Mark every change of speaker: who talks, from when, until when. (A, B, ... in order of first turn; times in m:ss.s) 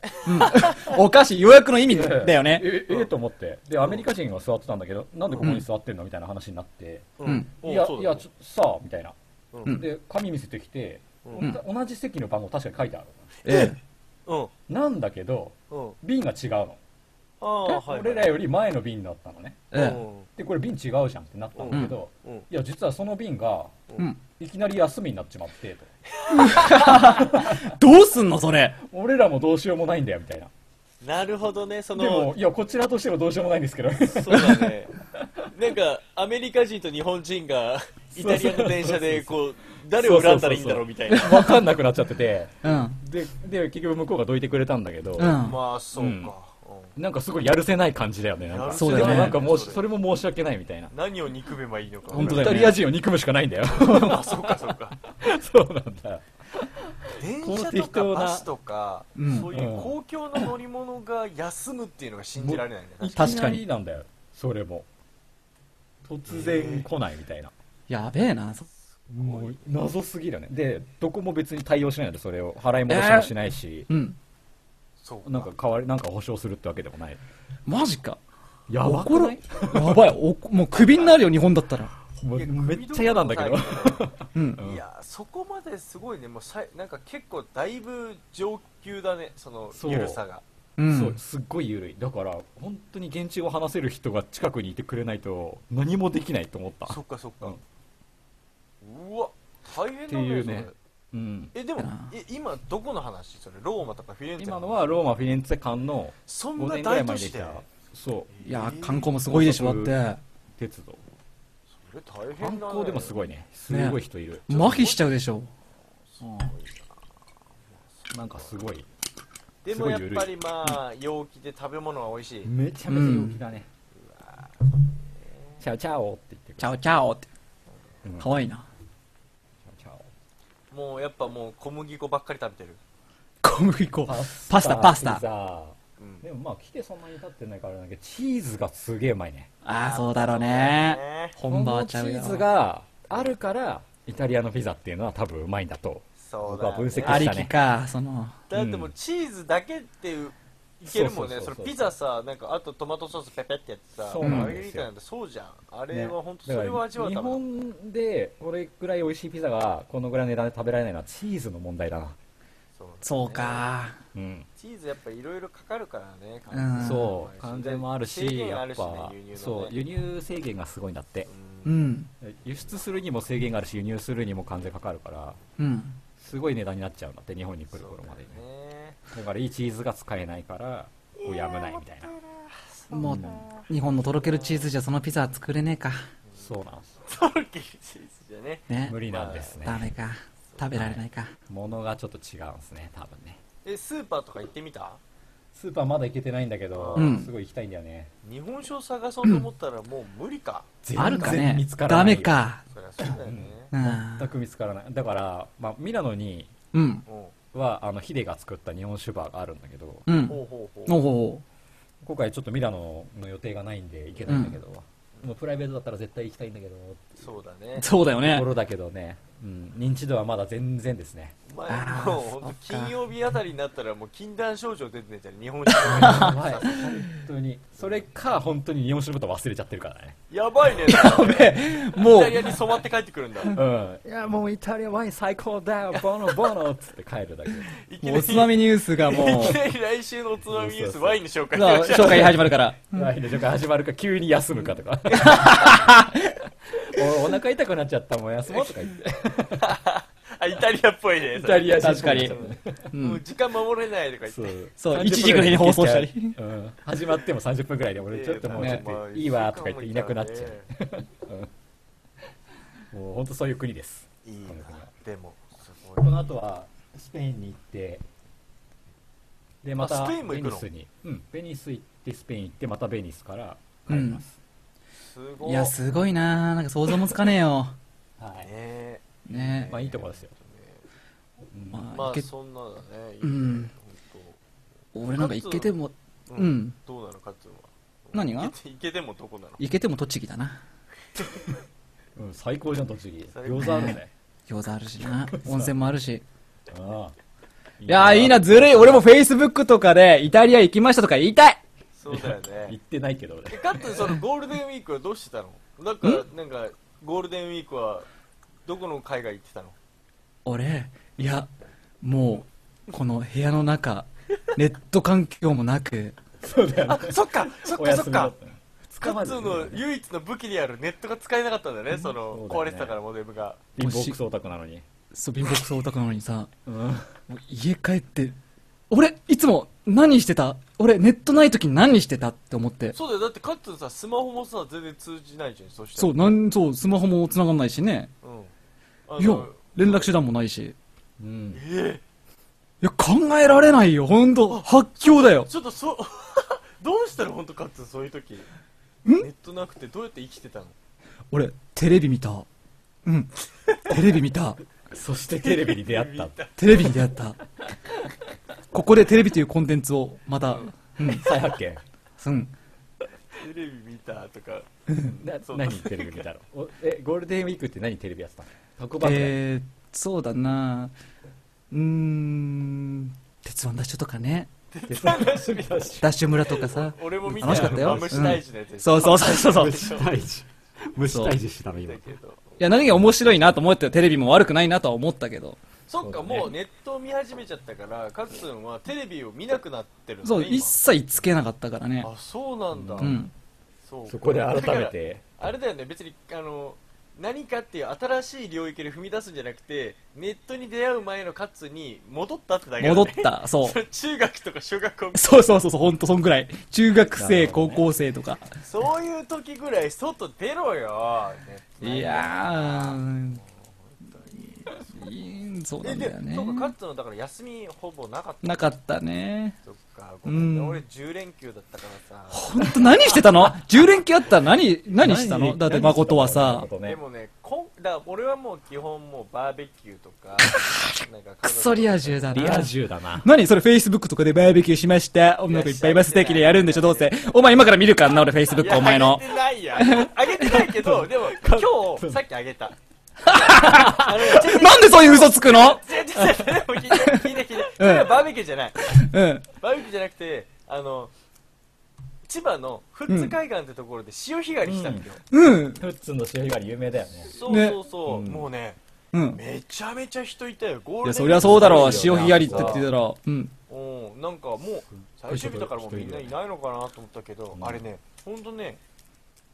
0:00.2-0:02.7 A
0:01.8-0:09.1 B
0:05.4-0:05.6 A
0:07.2-0:08.2 C
0:09.5-0:09.8 C
0:09.7-0:13.4 B
0:11.2-0:11.5 C
0:13.4-0:13.8 C
0:13.4-0:13.8 A
0:14.3-0:14.5 C
0:14.7-0:16.8 B
0:15.7-0:16.0 C
0:17.4-0:18.4 C
0:17.7-0:19.7 B
0:19.7-0:20.0 A
0:19.7-0:20.3 C
0:20.3-0:23.8 B
0:21.6-0:22.4 C
0:24.4-0:25.9 B
0:26.1-0:27.4 C
0:26.3-0:28.8 A
0:26.8-0:27.7 B
0:28.8-0:30.5 B
0:31.0-0:32.3 C
0:32.0-0:35.4 B
0:34.1-0:34.9 C
0:35.5-0:41.5 C
0:38.2-0:39.4 B
0:39.9-0:46.3 B
0:41.3-0:41.6 A
0:42.6-0:43.0 A
0:45.2-0:45.6 A
0:45.4-0:46.9 C
0:47.0-0:50.9 B
0:48.5-0:49.8 C
0:48.7-0:49.5 A
0:50.9-0:52.8 C
0:52.1-0:58.4 B
0:52.1-0:52.8 A
0:53.8-0:55.0 C
0:57.1-1:03.3 C
0:59.2-0:59.5 A
0:59.5-0:59.9 B
1:02.4-1:04.9 B
1:03.2-1:03.6 A
1:06.0-1:07.5 B
1:06.3-1:06.9 C
1:07.9-1:08.7 A
1:09.1-1:09.7 C
1:09.1-1:13.9 B
1:12.9-1:13.3 A
1:13.9-1:14.2 A
1:15.0-1:15.5 C
1:15.2-1:17.2 B
1:17.7-1:18.2 A
1:18.7-1:20.1 B
1:18.8-1:21.9 A
1:22.2-1:24.8 B
1:22.4-1:30.4 C
1:24.3-1:24.6 A
1:29.7-1:30.2 B
1:30.8-1:31.2 A
1:30.9-1:37.6 B
1:36.8-1:37.6 C
1:38.8-1:40.7 C
1:40.1-1:41.5 B
1:41.5-1:45.0 C
1:41.8-1:42.1 A
1:44.4-1:48.4 B
1:46.2-1:47.7 C
1:48.3-1:49.1 C
1:48.4-1:50.2 A
1:49.2-1:50.0 B
1:50.6-1:51.0 B
1:51.7-1:53.2 C
1:52.4-1:54.8 B
1:53.7-1:55.5 A
1:54.5-1:55.1 C
1:56.1-1:57.0 C
1:57.7-1:58.5 C
1:58.1-1:58.9 B
1:59.6-2:02.5 C
1:59.7-2:00.4 B
2:02.4-2:03.7 B
2:02.9-2:03.4 A
2:03.9-2:05.6 C
2:05.6-2:06.8 B
2:06.6-2:07.3 A
2:08.0-2:08.3 B
2:08.2-2:08.6 A
2:09.6-2:10.1 B
2:10.7-2:12.8 C
2:13.4-2:15.2 A
2:14.0-2:19.5 B
2:16.0-2:16.2 C
2:19.6-2:22.4 A
2:19.7-2:21.4 C
2:21.4-2:27.5 B
2:26.2-2:27.3 C
2:27.0-2:28.4 A
2:28.5-2:37.4 C
2:28.5-2:28.9 B
2:30.8-2:31.9 B
2:34.1-2:34.9 B
2:34.2-2:34.6 A
2:35.9-2:42.2 B
2:42.7-2:43.6 C
2:43.0-2:44.0 A
2:44.1-2:44.5 B
2:44.6-2:49.8 C
2:46.5-2:47.1 A
2:46.8-2:51.3 B
2:51.3-2:51.8 C
2:51.6-2:52.1 A
2:52.2-2:55.4 B
2:55.6-2:56.0 A
2:56.2-2:58.4 B
2:57.7-2:59.0 C
2:59.1-3:02.1 B
3:01.2-3:04.7 C
3:02.9-3:06.0 A
3:02.9-3:03.5 B
3:06.4-3:06.9 B
3:07.0-3:09.7 C
3:08.7-3:09.0 A
3:08.9-3:09.8 B
3:09.5-3:11.3 A
3:10.7-3:13.4 B
3:13.6-3:15.0 C
3:15.5-3:18.1 B
3:16.7-3:17.2 C
3:17.0-3:17.3 A
3:18.2-3:21.4 C
3:20.8-3:22.4 B
3:21.0-3:22.6 A
3:22.7-3:23.7 C
3:23.0-3:26.5 B
3:23.7-3:24.3 A
3:26.7-3:27.0 A
3:27.0-3:27.3 C
3:27.5-3:30.1 B
3:30.1-3:31.4 A
3:30.2-3:31.0 C
3:32.0-3:37.2 B
3:34.3-3:34.6 A
3:37.2-3:37.9 C
3:37.8-3:38.5 A
3:38.2-3:41.4 B
3:41.4-3:47.1 C
3:41.7-3:42.9 A
3:45.8-3:46.4 A
3:45.9-3:50.2 B
3:47.8-3:48.0 C
3:50.3-3:53.6 C
3:50.9-3:52.6 A
3:53.5-3:57.8 B
3:57.7-4:02.4 C
3:58.0-3:59.6 A
4:00.5-4:01.2 B
4:01.5-4:03.1 A
4:02.0-4:05.8 B
4:05.2-4:05.7 C
4:05.2-4:06.2 A
4:06.8-4:09.7 B
4:09.6-4:14.6 C
4:11.3-4:12.8 B
4:11.7-4:12.4 A
4:12.9-4:13.2 A
4:14.2-4:21.5 B
4:14.8-4:16.4 A
4:18.0-4:20.7 C
4:22.9-4:24.9 B
4:24.2-4:26.2 C
4:26.0-4:28.0 B
4:29.6-4:34.4 B
4:29.8-4:30.7 C
4:33.9-4:34.2 A
4:35.0-4:35.7 C
4:35.4-4:37.8 A
4:38.2-4:38.5 B
4:38.4-4:40.8 C
4:39.3-4:39.7 A
4:39.3-4:40.3 B
4:41.5-4:41.9 B
4:41.7-4:42.3 A
4:41.9-4:44.4 C
4:43.2-4:43.7 A
4:44.9-4:46.8 A
4:45.1-4:45.8 C
4:46.3-4:49.6 C
4:48.1-4:48.5 A
4:49.6-4:50.6 A
4:52.2-4:54.1 B
4:53.3-4:54.0 C
4:53.6-4:56.2 A
4:55.3-4:55.7 B
4:56.7-4:57.1 B
4:57.8-4:59.1 B
4:57.9-5:01.6 A
5:02.0-5:02.8 C
5:02.1-5:03.8 B
5:03.5-5:08.1 C
5:08.6-5:09.8 C
5:10.4-5:11.5 A
5:12.0-5:16.2 A
5:16.4-5:19.8 B
5:16.8-5:18.3 C
5:19.0-5:23.6 C
5:22.2-5:23.0 B
5:23.7-5:24.8 B
5:23.8-5:24.2 A
5:25.1-5:26.5 A
5:26.6-5:27.1 B
5:27.3-5:28.4 A
5:28.9-5:32.9 A
5:32.9-5:36.4 C
5:36.0-5:38.1 A
5:38.2-5:38.5 C
5:39.1-5:40.1 C
5:39.2-5:40.8 A
5:41.2-5:41.6 B
5:41.5-5:42.0 C
5:42.8-5:45.5 A
5:44.5-5:48.5 C
5:49.1-5:50.7 C
5:51.3-5:52.4 A
5:53.0-5:53.3 A
5:53.8-5:54.6 A
5:54.9-5:56.4 B
5:55.4-5:57.0 C
5:56.6-5:57.4 A
5:58.7-6:01.3 A
6:00.5-6:00.7 C
6:01.0-6:01.8 B
6:02.2-6:02.5 A
6:03.3-6:04.7 C
6:05.0-6:09.3 B
6:05.4-6:06.3 C
6:09.0-6:10.9 A
6:11.7-6:14.5 A
6:14.7-6:20.1 C
6:14.9-6:16.0 B
6:16.0-6:19.8 A
6:17.4-6:18.3 B
6:19.0-6:22.1 B
6:21.0-6:21.4 A
6:21.7-6:22.8 C
6:22.6-6:25.6 A
6:25.9-6:30.8 C
6:26.0-6:26.5 B
6:30.2-6:32.1 A
6:32.0-6:33.2 C
6:32.7-6:33.2 B
6:33.0-6:33.3 A
6:33.8-6:45.4 C
6:34.1-6:35.3 B
6:42.8-6:43.8 A
6:45.1-6:48.5 A
6:47.2-6:47.8 B
6:48.6-6:55.1 C
6:51.8-6:53.4 A
6:54.9-6:56.7 A
6:55.8-6:58.8 C
6:58.4-6:59.6 A
6:59.6-7:02.8 C
7:00.2-7:00.8 A
7:02.3-7:06.7 A
7:05.0-7:07.0 B
7:06.8-7:12.6 C
7:10.5-7:19.2 A
7:12.3-7:13.3 B
7:15.5-7:17.2 C
7:18.6-7:22.7 C
7:19.8-7:20.7 A
7:20.8-7:22.2 B
7:23.2-7:25.8 A
7:23.3-7:28.8 C
7:26.2-7:26.6 B
7:26.9-7:28.2 A
7:28.8-7:29.5 A
7:29.6-7:31.1 C
7:32.2-7:35.2 C
7:33.1-7:33.3 A
7:34.6-7:35.1 B
7:35.3-7:35.8 A
7:35.8-7:37.4 B
7:37.3-7:38.8 C
7:37.5-7:37.8 A
7:38.1-7:38.5 B
7:39.1-7:39.4 A
7:39.3-7:42.9 C
7:41.0-7:43.5 A
7:41.3-7:42.9 B
7:43.7-7:48.8 C
7:45.3-7:46.3 B
7:47.5-7:47.8 B